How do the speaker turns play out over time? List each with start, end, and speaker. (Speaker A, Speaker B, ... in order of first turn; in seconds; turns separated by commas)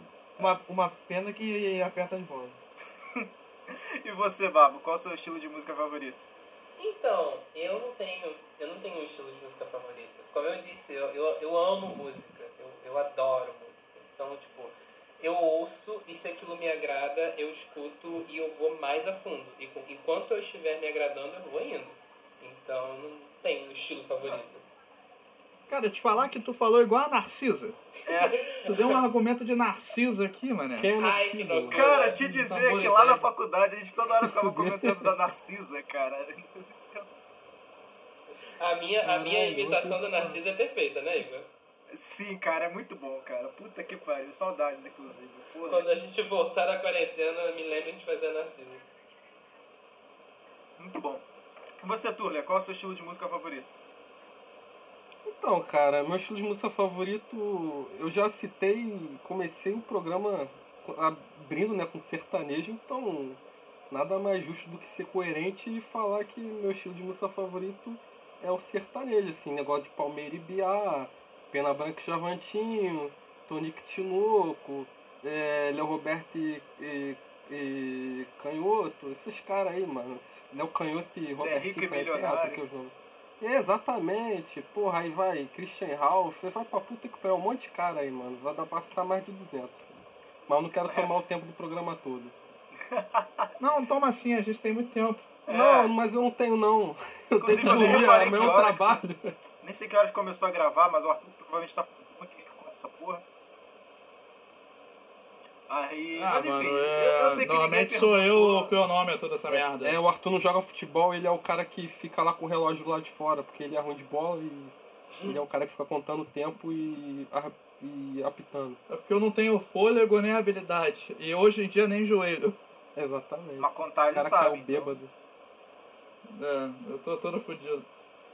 Speaker A: 0.4-2.6, Speaker B: 3.1-6.2, Speaker C: 6.8-24.6, Speaker D: 25.7-27.8, Speaker B: 28.1-28.9, Speaker C: 28.1-28.7, Speaker D: 28.7-30.9, Speaker E: 30.7-31.9, Speaker C: 31.0-32.2, Speaker B: 31.7-37.1, Speaker D: 32.2-33.3, Speaker E: 34.0-35.1, Speaker C: 38.6-41.5, Speaker E: 39.0-40.4, Speaker B: 41.9-45.9, Speaker C: 45.6-48.8, Speaker B: 50.8-51.2, Speaker B: 51.8-53.7, Speaker E: 55.2-89.9, Speaker B: 81.3-82.6, Speaker E: 90.5-92.3, Speaker B: 92.8-93.5, Speaker D: 93.6-95.3, Speaker B: 95.5-95.9, Speaker E: 95.5-99.3, Speaker B: 97.4-99.0, Speaker B: 99.6-103.2, Speaker B: 105.7-108.7, Speaker D: 106.2-110.0, Speaker E: 109.5-118.8, Speaker D: 118.9-122.6, Speaker E: 123.0-125.1, Speaker B: 123.6-125.0, Speaker D: 126.3-127.8